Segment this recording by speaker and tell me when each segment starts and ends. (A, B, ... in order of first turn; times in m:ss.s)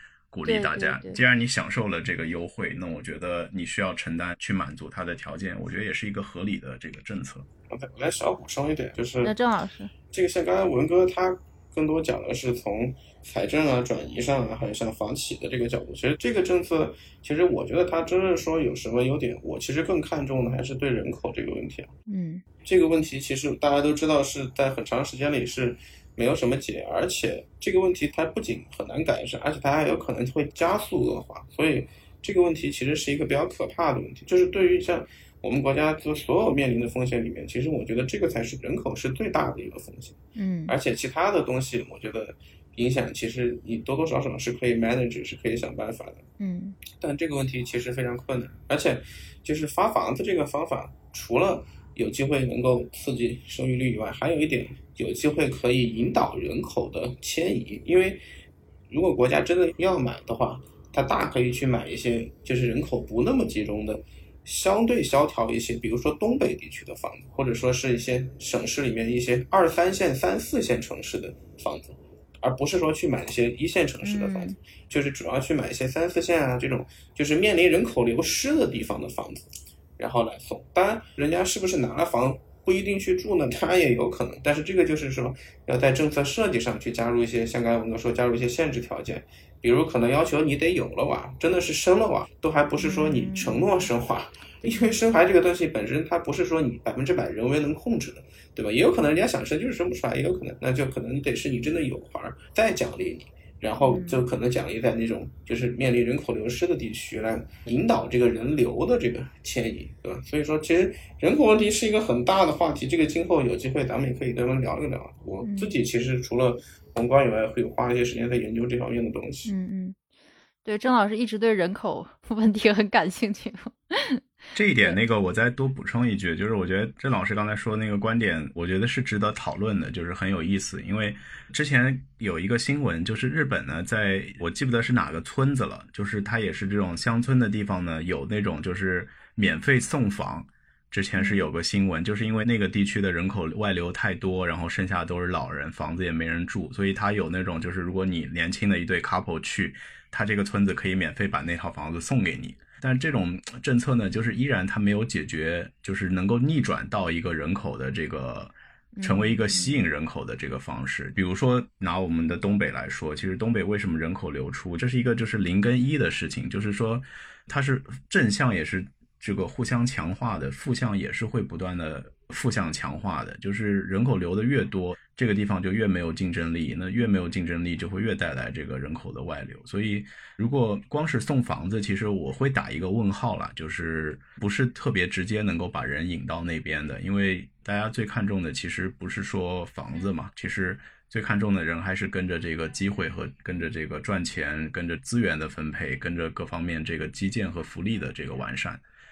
0:00.3-0:07.5 A
0:00.4-0:01.2 B
0:07.7-0:09.3 C
0:09.2-0:09.9 B
0:10.1-0:21.9 C
0:22.1-0:22.4 B
0:22.6-0:40.2 C
0:40.4-0:40.7 B
0:40.7-0:46.2 C
0:46.4-0:46.8 B
0:46.9-0:58.2 C
0:58.9-1:59.5 C
1:14.0-1:14.6 B
1:32.8-1:33.6 B
1:34.6-1:34.9 B
1:43.8-1:44.2 B
1:55.4-1:55.7 B
1:59.4-2:00.0 B
2:00.6-2:05.0 B
2:04.5-3:18.8 A
2:21.2-2:21.4 B
2:38.9-2:39.8 B